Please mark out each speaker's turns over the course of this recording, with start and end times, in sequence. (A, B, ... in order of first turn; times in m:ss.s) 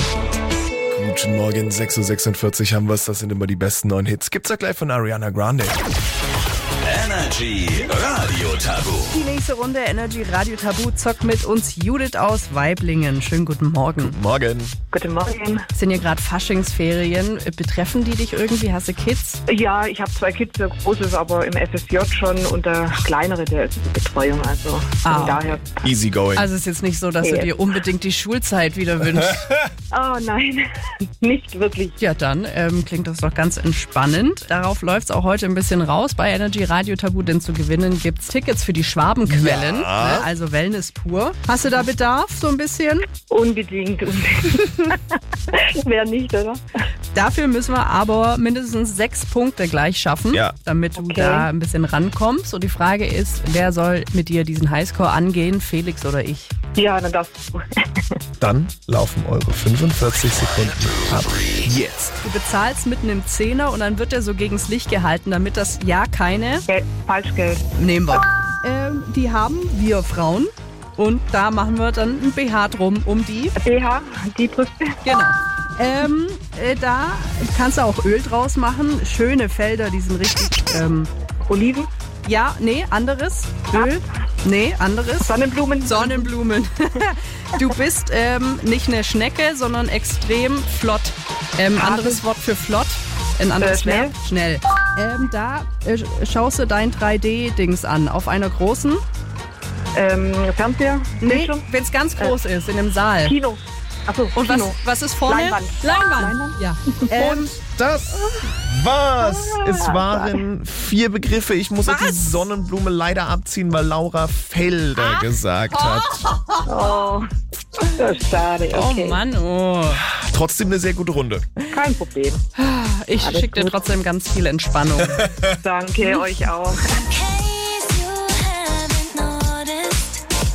0:00.9-0:05.8 A
0:06.8-0:09.1 B
0:09.1-0:14.2 C
0:14.0-0:14.7 A
0:14.9-0:15.6 D
0:15.7-0:19.4 C
0:19.5-0:25.9 D
0:25.0-0:25.6 C
0:25.8-0:26.5 A
0:26.4-0:29.5 C
0:27.2-0:27.5 D
0:29.9-0:30.6 D
0:31.2-0:31.9 D
0:32.0-0:43.0 C
0:39.3-0:40.3 A
0:43.3-0:46.6 D
0:47.1-0:56.5 C
0:51.0-0:51.5 D
0:56.8-0:58.1 D
0:58.4-1:02.0 A
1:02.2-1:06.6 C
1:06.7-1:07.6 D
1:07.8-1:13.6 C
1:13.6-1:15.0 D
1:15.0-1:21.1 C
1:21.5-1:21.9 D
1:22.2-1:25.3 C
1:25.2-1:26.3 D
1:25.8-1:39.0 C
1:31.8-1:32.2 D
1:33.6-1:34.1 D
1:39.9-1:41.7 D
1:41.2-1:43.3 C
1:43.2-1:47.5 D
1:44.3-1:47.5 C
1:47.5-1:56.3 A
1:49.2-1:50.4 D
1:51.9-1:52.3 C
1:55.0-1:57.0 C
1:56.7-1:57.2 D
1:58.0-1:59.2 D
1:58.7-2:00.1 C
2:00.1-2:01.5 A
2:01.7-2:02.4 D
2:02.6-2:05.2 C
2:03.2-2:03.9 D
2:05.4-2:06.9 D
2:07.0-2:10.2 E